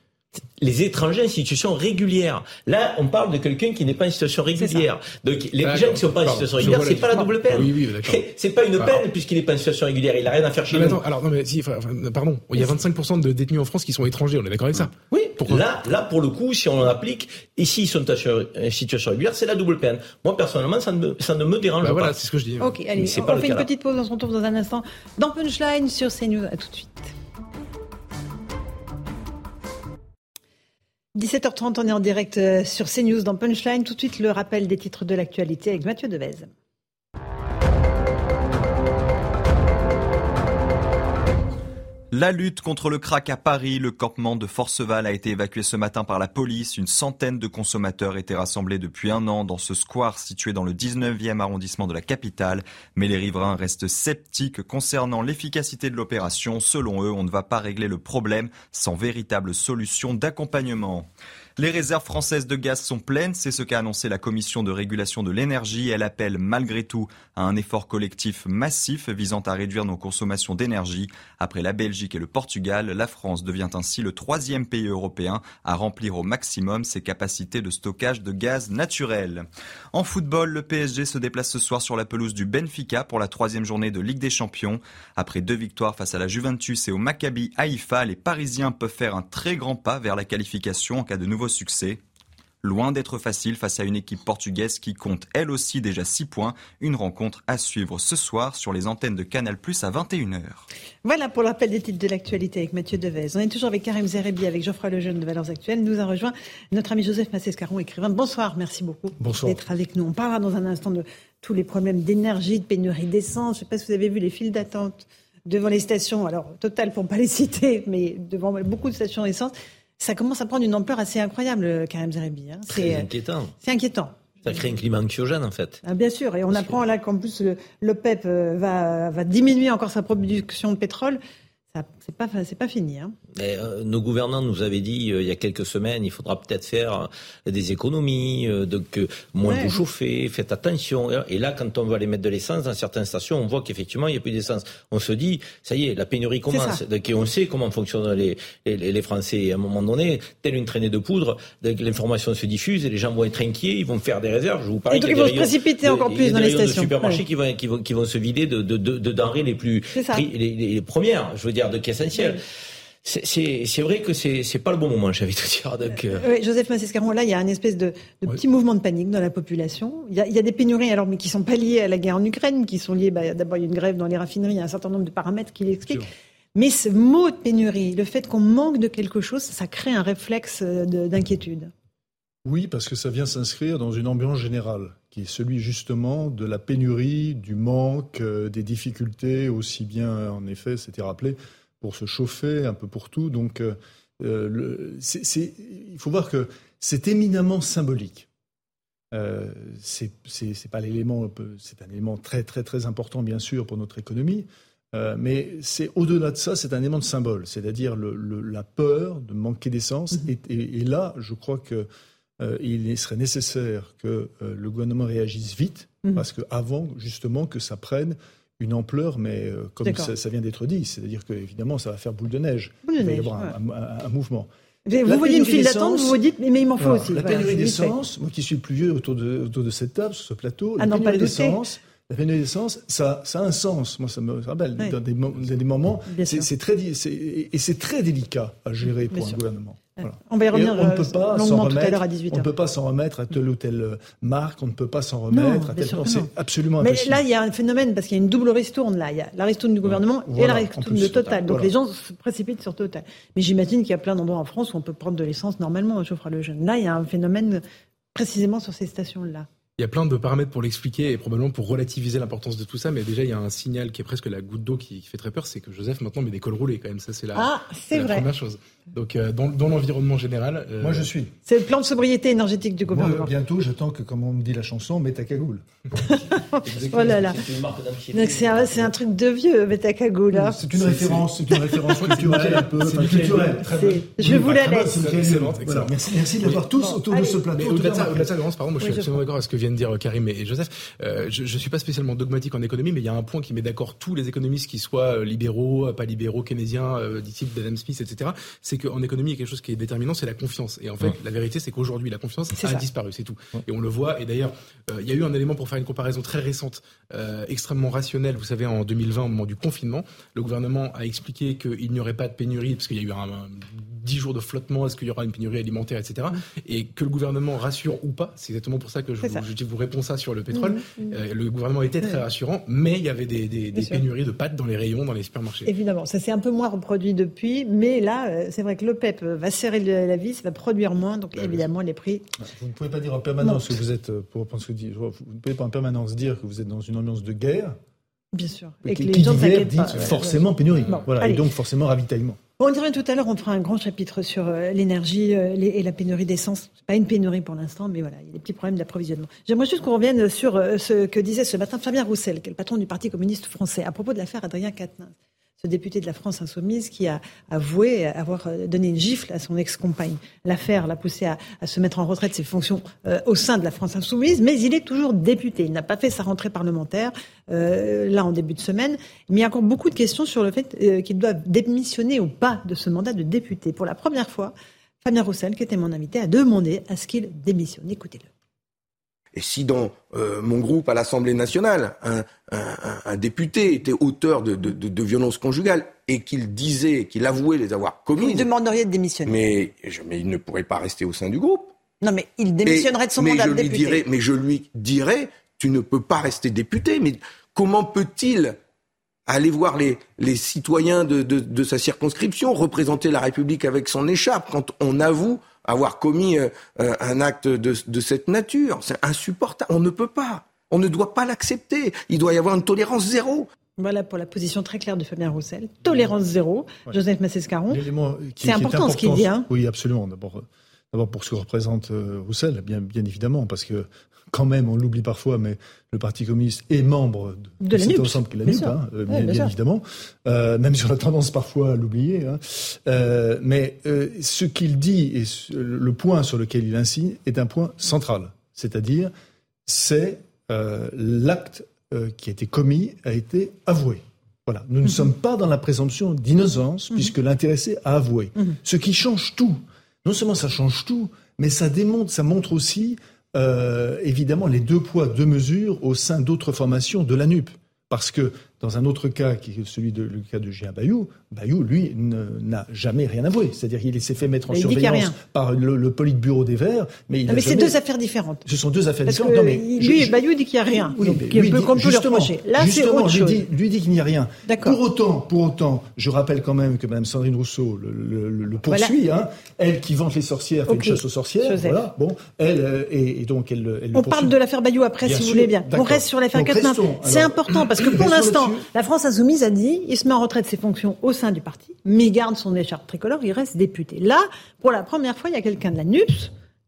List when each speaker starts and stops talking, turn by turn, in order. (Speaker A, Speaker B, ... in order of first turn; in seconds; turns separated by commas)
Speaker A: 0.4-11.0, Speaker B: 4.6-4.9, Speaker C: 5.6-8.2, Speaker C: 10.7-15.7, Speaker A: 15.1-22.1, Speaker C: 21.8-22.7, Speaker B: 22.6-27.1, Speaker A: 23.0-23.7, Speaker B: 31.2-36.5, Speaker D: 42.1-92.0, Speaker D: 92.6-100.7, Speaker B: 101.0-123.1, Speaker E: 109.2-109.6, Speaker A: 122.7-123.5, Speaker B: 123.6-124.5, Speaker A: 124.5-125.8, Speaker B: 125.8-131.2, Speaker A: 126.5-126.8, Speaker B: 131.7-133.2, Speaker A: 133.3-162.4, Speaker B: 139.5-139.8, Speaker B: 146.5-146.8, Speaker B: 154.9-157.2, Speaker B: 159.9-160.2, Speaker A: 163.0-166.2, Speaker B: 166.2-181.7, Speaker E: 182.5-198.3, Speaker E: 199.1-211.9, Speaker E: 212.4-224.5, Speaker B: 219.8-220.1, Speaker B: 222.9-223.6, Speaker B: 224.9-228.0, Speaker E: 225.0-226.2, Speaker E: 226.8-247.2, Speaker B: 230.8-231.6, Speaker B: 236.1-236.5, Speaker B: 239.1-239.4, Speaker B: 240.0-242.5, Speaker B: 245.3-257.6, Speaker E: 250.2-251.7, Speaker B: 258.1-259.5, Speaker C: 259.8-271.1, Speaker B: 267.4-268.3, Speaker E: 270.8-271.3, Speaker B: 271.5-273.3, Speaker E: 272.9-275.6, Speaker B: 276.1-277.4, Speaker A: 276.6-278.9, Speaker B: 278.1-285.1, Speaker E: 280.3-288.3, Speaker C: 280.7-281.2, Speaker C: 282.0-286.6, Speaker B: 286.8-287.5, Speaker C: 287.5-325.7, Speaker B: 288.8-289.2, Speaker B: 302.6-302.9, Speaker B: 320.5-321.2, Speaker B: 323.7-324.0, Speaker B: 325.7-332.3, Speaker E: 332.5-337.8, Speaker B: 333.4-333.8, Speaker B: 338.3-341.4, Speaker E: 338.8-342.4, Speaker C: 339.9-340.9, Speaker B: 342.6-378.3, Speaker F: 379.3-388.5, Speaker B: 388.2-389.4, Speaker F: 389.3-391.7, Speaker B: 392.0-394.0, Speaker F: 392.7-398.6, Speaker F: 399.3-413.5, Speaker B: 413.8-417.8, Speaker E: 417.7-439.1, Speaker B: 418.4-419.5, Speaker B: 427.6-429.5, Speaker E: 439.7-467.8, Speaker B: 444.9-445.1, Speaker B: 464.5-465.2, Speaker B: 467.3-468.4, Speaker E: 468.5-484.3, Speaker B: 469.1-473.5, Speaker B: 474.5-474.8, Speaker B: 478.7-479.0, Speaker B: 480.7-481.8, Speaker B: 483.9-496.3, Speaker E: 485.0-488.7